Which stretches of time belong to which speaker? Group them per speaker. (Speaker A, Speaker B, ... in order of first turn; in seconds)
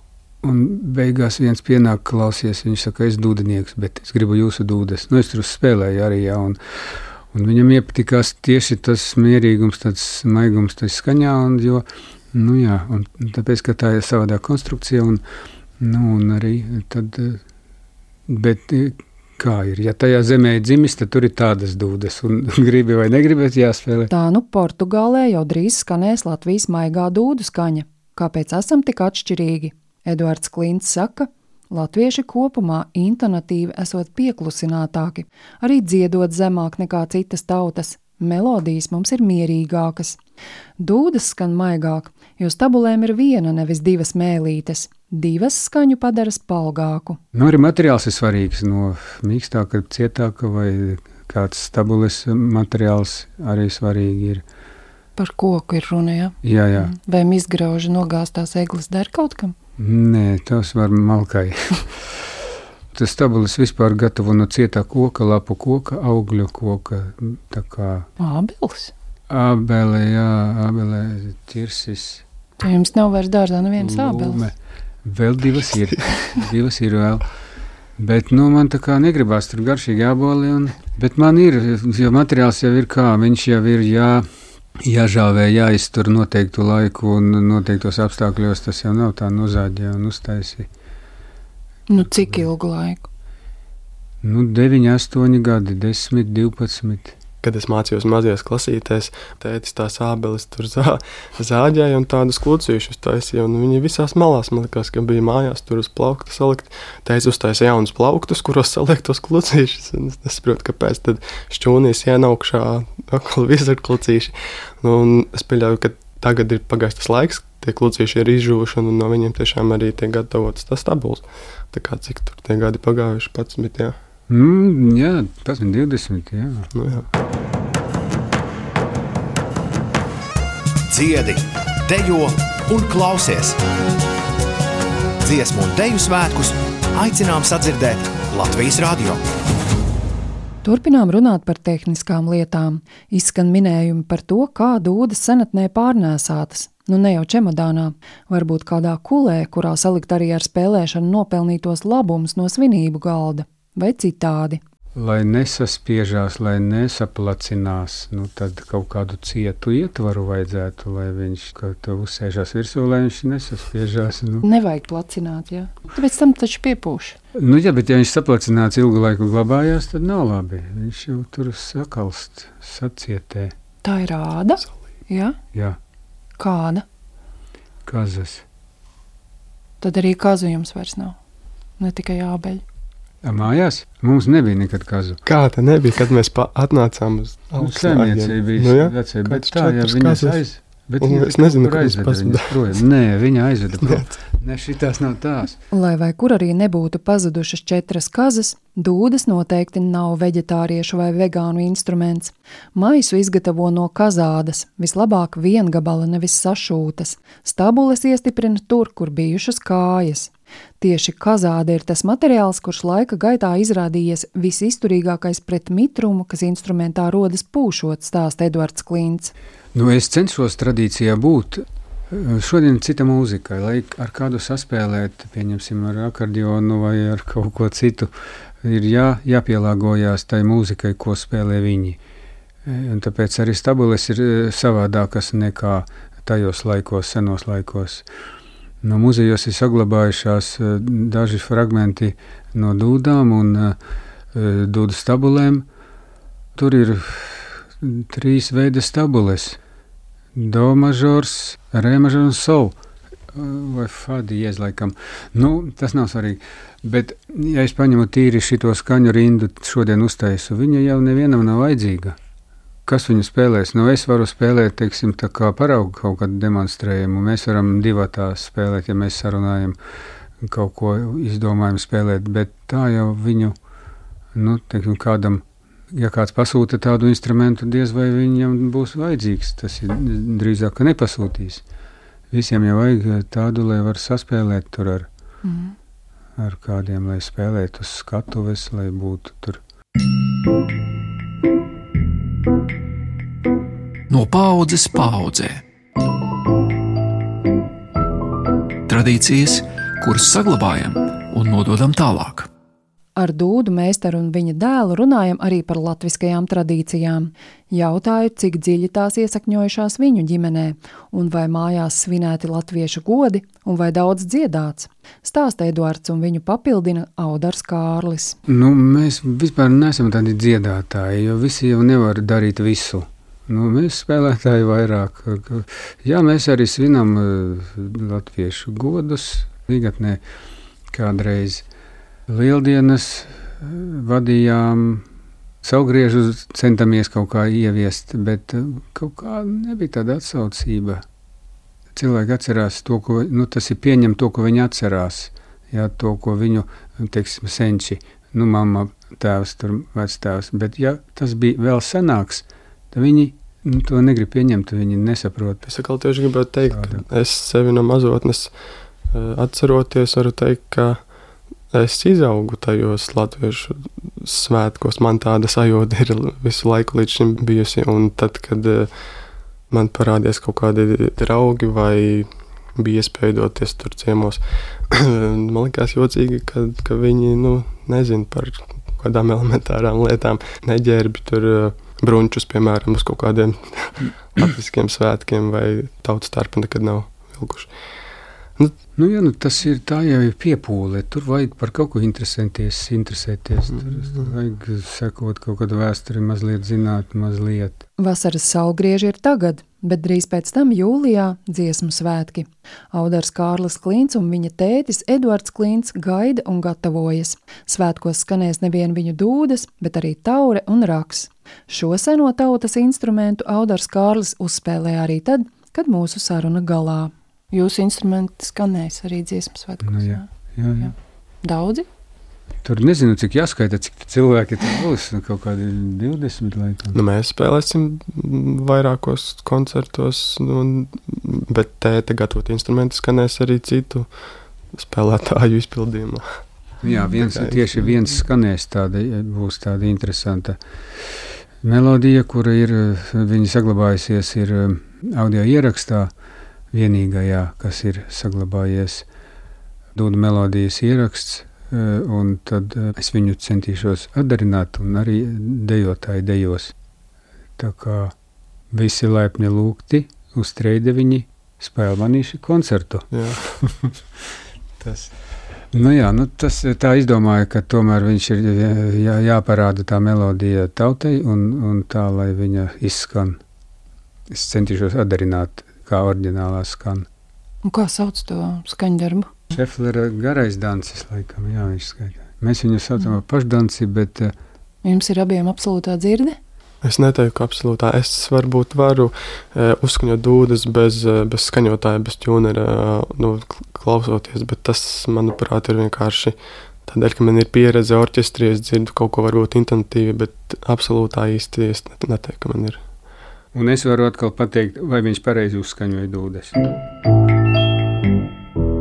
Speaker A: 0.4-6.6, 7.3-15.2, 15.8-17.4, 18.3-24.1, 47.3-54.4, 56.4-57.0, 59.8-62.2, 62.9-68.1, 69.3-72.2, 73.8-77.3, 78.0-84.3, 84.8-90.7, 94.2-97.2, 124.3-126.7, 154.9-164.4, 167.3-173.6, 177.9-178.4, 183.2-185.2, 187.6-195.6, 219.7-228.1, 228.6-232.0, 232.7-238.1, 238.8-243.8, 244.3-245.7, 246.6-249.6, 250.3-252.8, 253.3-262.2, 262.9-269.8, 270.4-273.6, 274.4-281.6, 282.3-285.1, 286.4-289.6, 318.5-330.2, 330.9-331.6, 332.3-335.1, 335.6-341.0, 341.9-355.7, 356.7-357.0, 389.0-397.8, 419.9-420.9, 422.6-427.0, 436.8-440.6, 441.6-446.1, 446.7-449.1, 449.9-456.7, 457.6-458.1, 458.7-463.1, 463.6-463.9, 465.7-473.4, 474.3-477.1, 479.5-484.3, 503.5-506.8
Speaker B: 24.1-40.2, 40.8-47.2, 55.2-59.5, 68.2-68.9, 72.6-74.4, 91.9-93.1, 140.6-154.6, 164.4-167.2, 173.8-175.4, 176.4-176.8, 179.8-181.2, 181.8-182.6, 195.7-219.3, 285.4-285.8, 303.2-318.4, 398.0-420.3, 421.4-421.9, 477.6-479.3, 484.8-486.4
Speaker C: 97.4-124.0, 126.7-127.1, 185.3-190.4, 191.0-192.6, 193.8-194.2, 355.7-358.5, 359.1-361.1, 361.7-368.9, 369.7-387.7, 426.9-434.1, 434.7-436.4, 437.3-437.6, 463.1-463.4, 464.8-465.1, 486.8-502.8
Speaker D: 130.9-133.6, 135.2-139.2
Speaker E: 294.1-295.6, 298.9-302.5